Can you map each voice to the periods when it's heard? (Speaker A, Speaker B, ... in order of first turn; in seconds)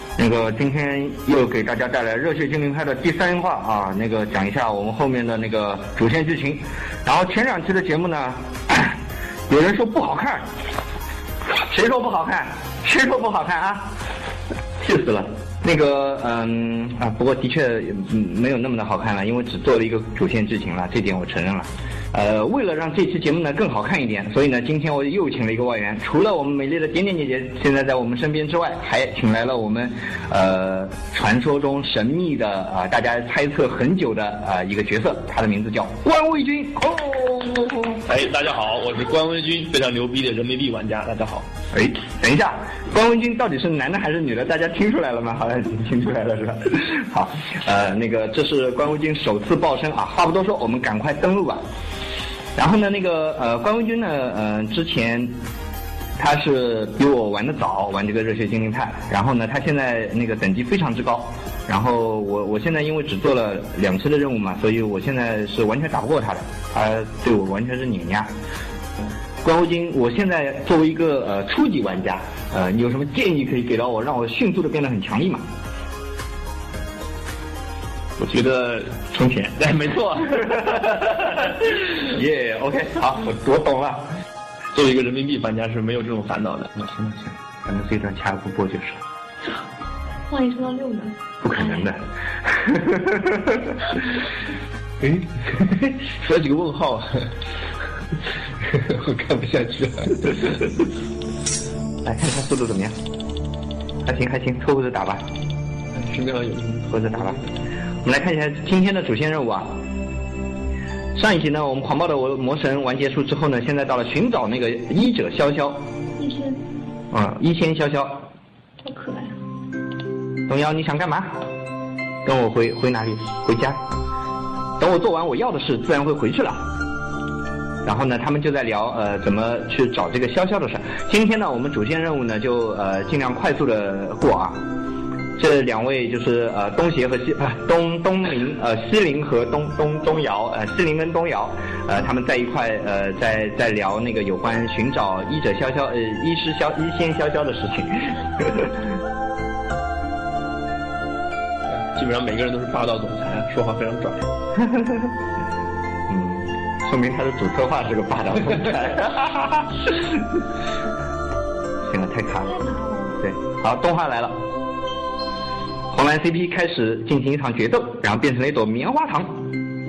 Speaker A: 0.2-10.4, 11.4-13.9, 14.8-38.0, 41.7-51.6, 52.5-55.3, 56.2-68.3, 69.4-75.4, 81.1-84.1, 86.9-89.0, 91.4-93.8, 102.0-103.0, 104.0-105.2, 106.9-107.4, 108.0-109.7, 111.1-115.8, 117.1-118.3, 120.5-121.4, 122.2-123.8, 124.8-126.6, 127.8-134.6, 135.4-148.8, 154.6-155.1, 156.1-160.2, 161.8-162.6, 163.2-164.4, 165.9-169.4
Speaker B: 38.1-41.5, 78.2-81.2, 84.7-86.9, 95.0-97.3, 98.6-100.7, 105.9-107.5, 151.7-154.2
Speaker C: 90.3-91.9, 116.2-116.6, 118.8-119.3, 162.4-163.2